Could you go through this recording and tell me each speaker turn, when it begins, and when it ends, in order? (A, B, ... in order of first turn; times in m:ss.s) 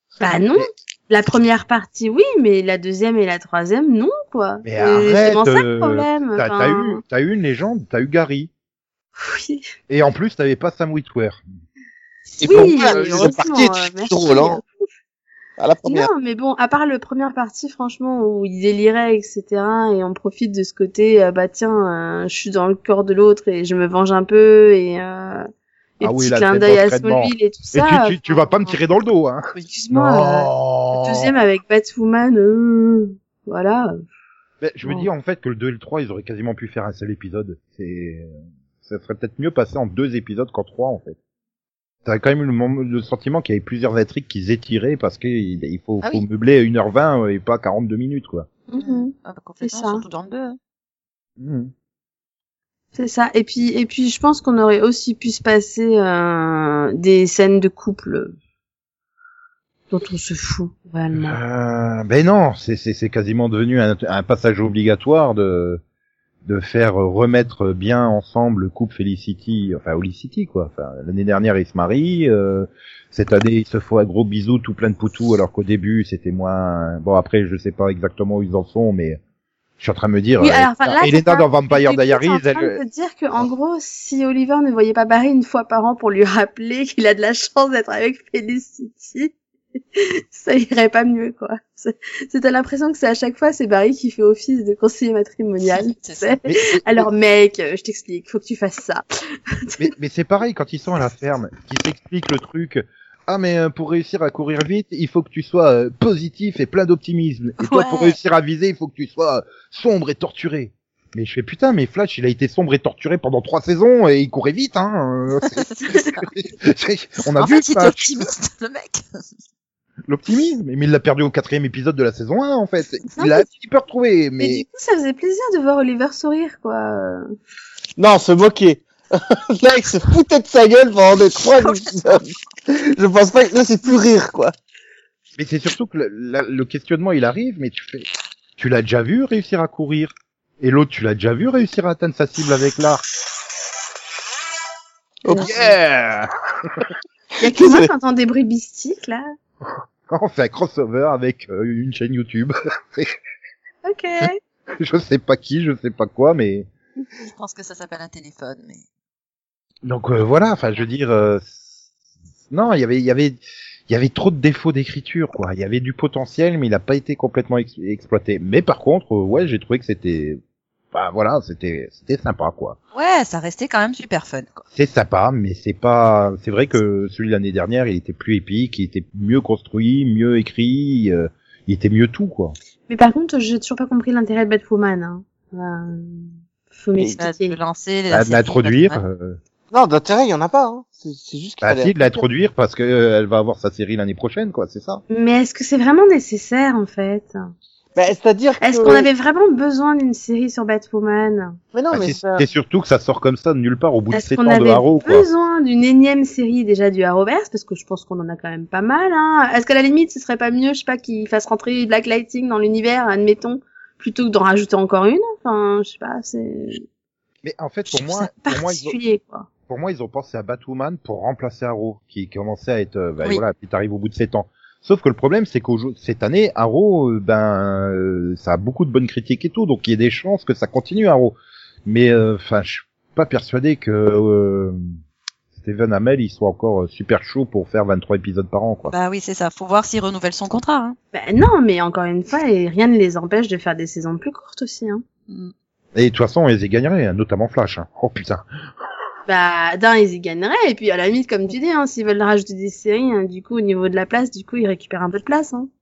0:00.2-0:07.0 A
0:04.6-0:08.5 B
0:09.2-0:09.7 A
0:09.9-0:11.4 B
0:12.4-0:14.6 C
0:12.4-0:14.7 A
0:15.6-0:16.1 C
0:15.9-0:25.5 A
0:26.0-0:28.4 A
0:26.0-0:31.3 B
0:29.6-0:34.0 A
0:34.6-0:41.2 B
0:42.0-0:48.5 B
0:46.0-0:46.3 D
0:48.7-0:49.1 A
0:48.8-0:50.6 D
0:49.6-0:50.0 A
0:51.4-0:51.7 B
0:53.0-0:58.4 A
0:59.9-1:01.4 A
1:01.2-1:05.8 B
1:06.4-1:19.2 B
1:19.8-1:22.8 B
1:20.4-1:29.3 A
1:30.0-1:39.0 A
1:35.7-1:36.4 D
1:36.5-1:37.1 B
1:39.8-1:58.3 B
1:47.6-1:48.2 D
1:55.6-1:56.0 D
1:57.4-1:59.0 D
2:00.1-2:04.6 B
2:03.2-2:03.5 A
2:04.4-2:07.2 A
2:08.0-2:14.5 C
2:15.4-2:23.0 B
2:25.2-2:25.7 C
2:25.4-2:26.9 B
2:27.4-2:29.3 A
2:27.4-2:27.9 C
2:30.1-2:33.1 B
2:33.8-2:34.4 A
2:34.8-2:36.7 B
2:37.2-2:38.8 D
2:39.8-2:41.5 B
2:42.5-2:50.4 B
2:50.9-2:52.8 B
2:52.9-2:54.6 D
2:54.7-3:02.6 B
3:02.9-3:07.6 A
3:07.2-3:09.0 D
3:08.1-3:09.4 B
3:09.7-3:12.0 C
3:11.6-3:15.0 B
3:15.1-3:17.4 A
3:18.0-3:19.1 C
3:18.6-3:21.6 A
3:21.7-3:22.4 C
3:21.9-3:25.3 B
3:24.1-3:36.8 A
3:37.4-3:39.0 B
3:37.9-3:39.5 A
3:39.7-3:54.8 B
3:55.6-3:58.9 B
3:58.9-4:01.0 D
4:01.1-4:05.0 A
4:06.0-4:08.4 B
4:09.3-4:15.7 A